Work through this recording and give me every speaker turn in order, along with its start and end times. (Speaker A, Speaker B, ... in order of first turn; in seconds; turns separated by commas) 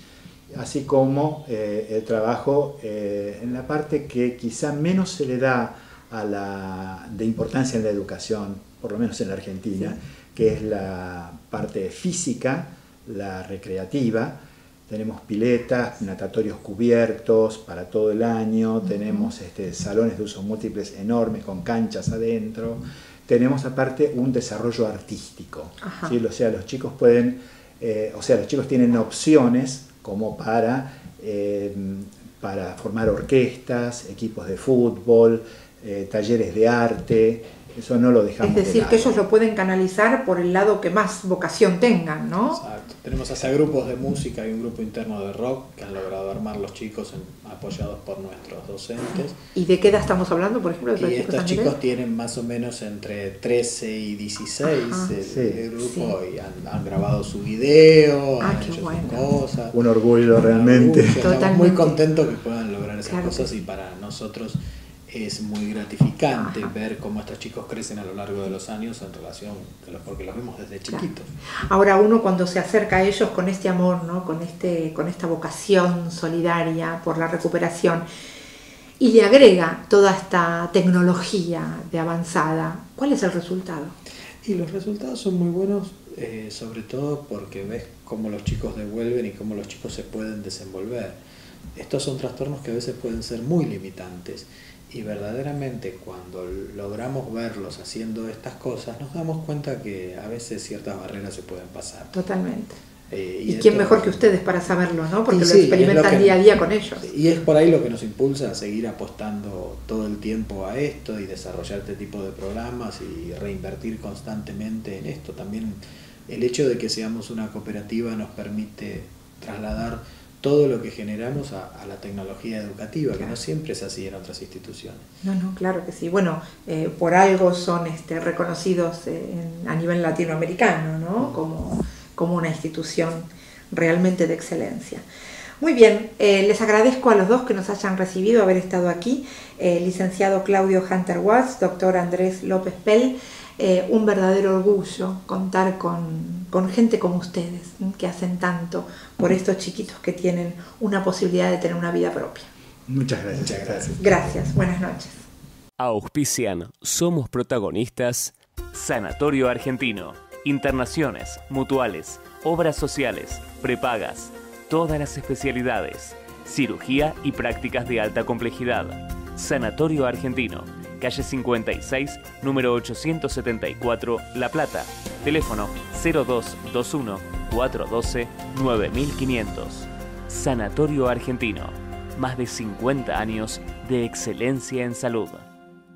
Speaker A: 0.5-39.2, Speaker B: 25.8-26.1, Speaker B: 38.4-42.6, Speaker C: 42.5-49.4, Speaker B: 49.5-51.8, Speaker C: 51.0-59.8, Speaker B: 54.7-55.2, Speaker A: 55.2-55.6, Speaker B: 55.8-56.1, Speaker B: 58.4-59.3, Speaker A: 59.7-61.2, Speaker C: 60.4-71.3, Speaker B: 61.1-62.0, Speaker B: 63.0-63.6, Speaker B: 66.4-66.7, Speaker B: 71.7-78.0, Speaker B: 79.0-84.0, Speaker C: 84.4-91.2, Speaker C: 91.8-102.1, Speaker B: 102.1-102.8, Speaker C: 103.1-104.2, Speaker B: 103.5-107.0, Speaker C: 105.3-106.4, Speaker C: 107.0-125.0, Speaker B: 125.2-135.0, Speaker B: 135.6-152.5, Speaker A: 152.9-154.1, Speaker C: 153.3-153.9, Speaker B: 154.0-155.2, Speaker D: 155.8-185.5